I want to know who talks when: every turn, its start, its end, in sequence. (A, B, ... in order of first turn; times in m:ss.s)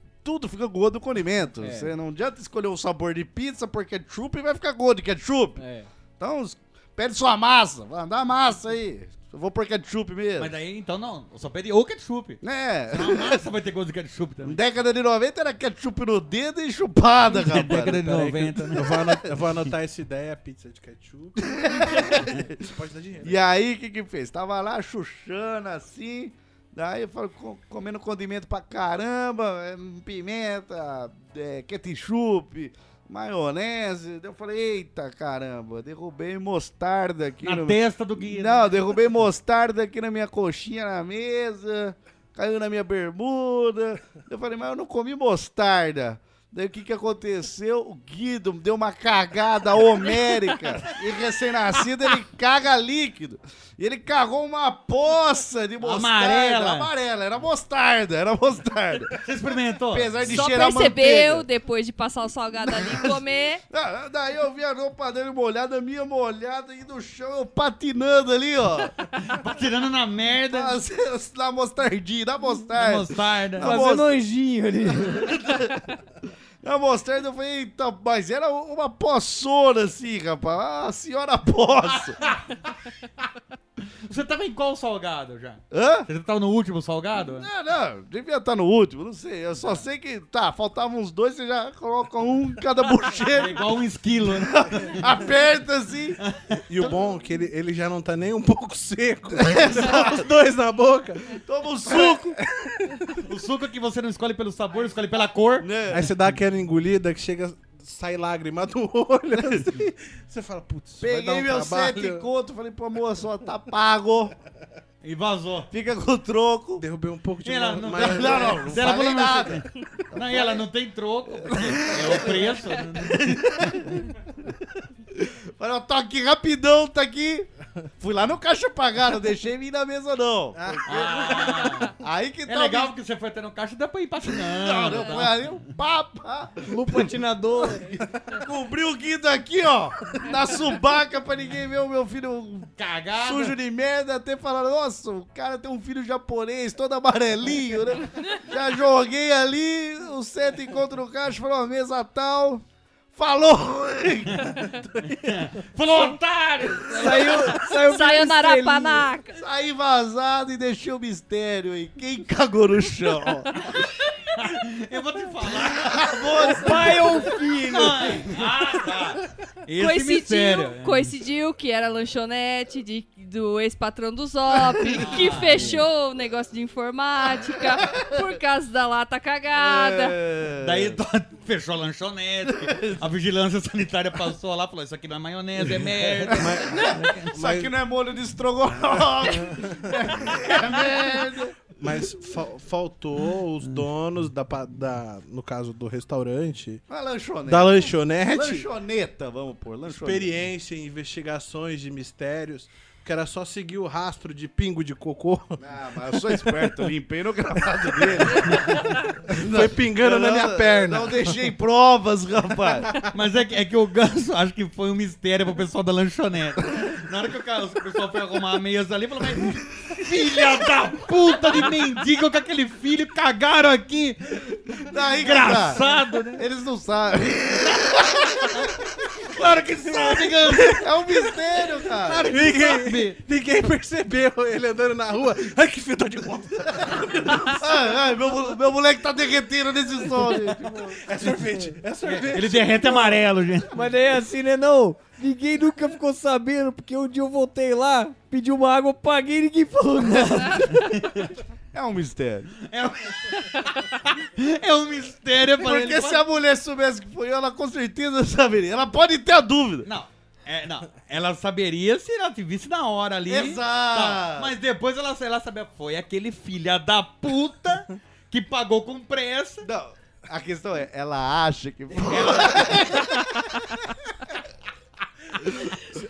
0:00.2-0:05.6 A
0:01.6-0:01.9 B
0:05.6-0:05.9 B
0:06.2-0:10.5 A
0:10.4-0:14.6 C
0:12.4-0:13.4 A
0:14.4-0:18.1 A
0:17.3-0:18.9 C
0:18.7-0:23.4 D
0:21.4-0:22.5 A
0:23.2-0:59.2 A
0:37.4-0:38.8 C
0:55.8-0:56.9 C
0:59.2-1:00.4 C
0:59.9-1:01.4 A
1:00.2-1:03.6 E
1:03.7-1:08.9 A
1:09.2-1:10.8 C
1:10.5-1:14.1 A
1:12.8-1:13.7 C
1:13.6-1:15.4 B
1:15.0-1:15.8 A
1:16.6-1:22.2 A
1:22.2-1:22.6 C
1:24.1-1:27.5 C
1:25.7-1:26.1 A
1:27.2-1:33.6 A
1:33.3-1:35.0 C
1:34.4-1:36.2 A
1:36.2-1:36.6 C
1:36.7-1:43.2 D
1:39.4-1:40.2 A
1:41.4-1:42.4 A
1:43.2-1:45.7 C
1:45.6-1:46.1 A
1:45.9-1:52.2 D
1:51.0-1:54.3 A
1:55.0-1:55.7 C
1:55.7-1:56.8 A
1:56.8-1:58.8 D
1:57.4-2:04.0 C
1:57.9-2:00.6 A
2:01.5-2:04.0 A
2:05.1-2:07.5 A
2:08.0-2:12.9 A
2:10.6-2:11.6 D
2:10.8-2:11.9 C
2:12.5-2:15.6 C
2:14.4-2:34.5 A
2:16.6-2:17.9 B
2:22.8-2:23.5 C
2:34.7-2:35.4 D
2:35.2-2:37.6 C
2:36.9-2:39.1 B
2:37.6-2:39.4 E
2:39.3-2:43.6 A
2:44.3-2:46.8 C
2:45.6-2:47.3 A
2:46.4-2:48.2 B
2:47.7-2:51.1 C
2:49.8-3:00.2 E
2:54.8-2:55.1 A
2:54.9-2:55.8 C
2:59.5-3:01.0 A
3:00.6-3:07.3 C
3:02.4-3:03.0 A
3:05.6-3:07.7 D
3:06.3-3:11.6 A
3:09.5-3:09.8 D
3:11.8-3:16.8 D
3:16.9-3:20.4 A
3:17.4-3:18.7 D
3:19.9-3:25.6 D
3:25.6-3:32.9 A
3:26.2-3:26.8 D
3:29.3-3:31.4 D
3:33.1-3:44.4 C
3:44.8-3:45.8 A
3:45.2-3:46.4 C
3:46.4-3:48.6 A
3:49.3-3:50.8 C
3:50.5-3:50.8 D
3:50.7-3:52.3 A
3:52.0-3:57.6 D
3:52.2-3:53.2 C
3:56.8-4:01.0 A
4:00.5-4:03.2 D
4:02.0-4:03.7 C
4:03.7-4:10.8 B
4:11.0-4:11.3 C
4:11.7-4:12.5 A
4:12.6-4:16.2 C
4:15.5-4:19.9 A
4:19.8-4:29.6 C
4:23.3-4:24.5 A
4:29.6-4:33.8 A
4:32.0-4:33.0 C
4:35.4-4:35.7 A